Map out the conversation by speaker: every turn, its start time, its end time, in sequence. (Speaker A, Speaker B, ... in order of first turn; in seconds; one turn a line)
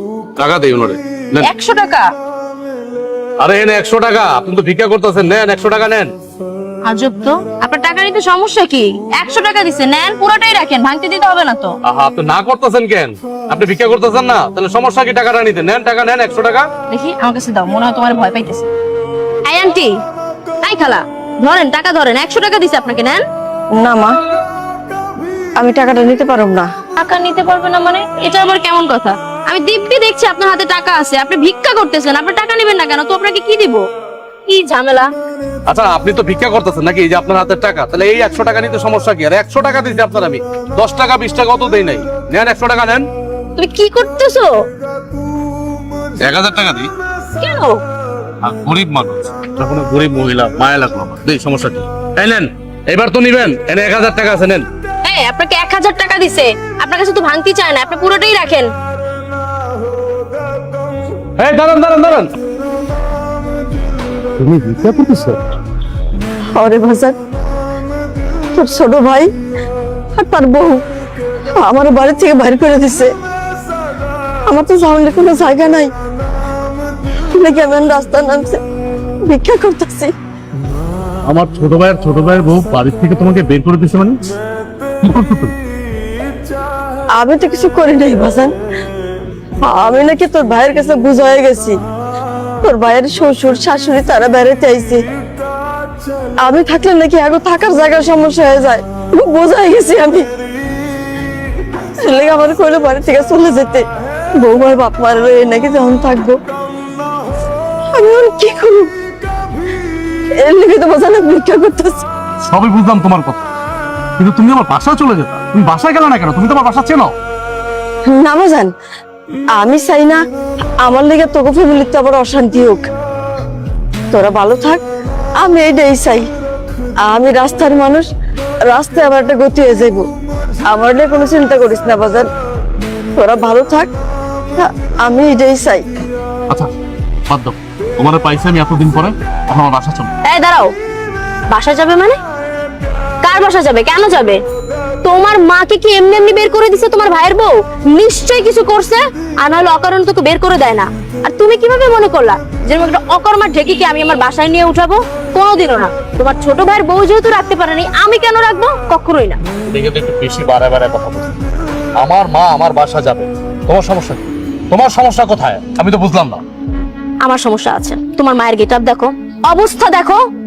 Speaker A: 0.4-1.5
Speaker B: 1.4-2.1
Speaker A: 3.4-6.1
Speaker B: 6.8-11.8
Speaker A: 11.8-16.7
Speaker B: 16.9-18.7
Speaker B: 19.4-20.0
Speaker B: 20.6-23.2
Speaker C: 23.8-24.2
Speaker C: 25.6-26.7
Speaker B: 27.0-33.8
Speaker B: 34.5-35.1
Speaker A: 35.7-43.1
Speaker B: 43.6-44.6
Speaker A: 46.2-46.9
Speaker B: 47.4-47.8
Speaker A: 48.4-54.7
Speaker B: 55.0-58.7
Speaker A: 61.4-62.3
Speaker A: 64.4-65.4
Speaker C: 66.6-67.2
Speaker C: 68.5-69.3
Speaker C: 70.2-70.8
Speaker C: 71.6-73.1
Speaker C: 74.5-75.9
Speaker C: 77.4-78.6
Speaker C: 79.3-80.1
Speaker A: 81.3-84.2
Speaker A: 85.0-85.5
Speaker C: 87.2-88.5
Speaker C: 89.6-91.8
Speaker C: 92.6-95.0
Speaker C: 96.4-100.2
Speaker C: 102.0-103.8
Speaker C: 104.4-106.4
Speaker C: 108.0-108.9
Speaker C: 110.4-112.1
Speaker A: 112.4-113.5
Speaker A: 114.2-117.1
Speaker C: 118.1-118.7
Speaker C: 119.6-120.2
Speaker C: 120.8-122.8
Speaker C: 124.1-124.8
Speaker C: 125.4-126.3
Speaker C: 127.0-128.1
Speaker C: 128.7-130.1
Speaker C: 130.7-132.3
Speaker C: 133.2-133.9
Speaker C: 134.6-135.9
Speaker A: 137.3-140.1
Speaker B: 140.2-140.7
Speaker B: 141.5-142.2
Speaker B: 143.2-144.4
Speaker B: 145.0-159.4
Speaker A: 159.7-161.3
Speaker A: 162.0-166.4
Speaker B: 167.2-170.2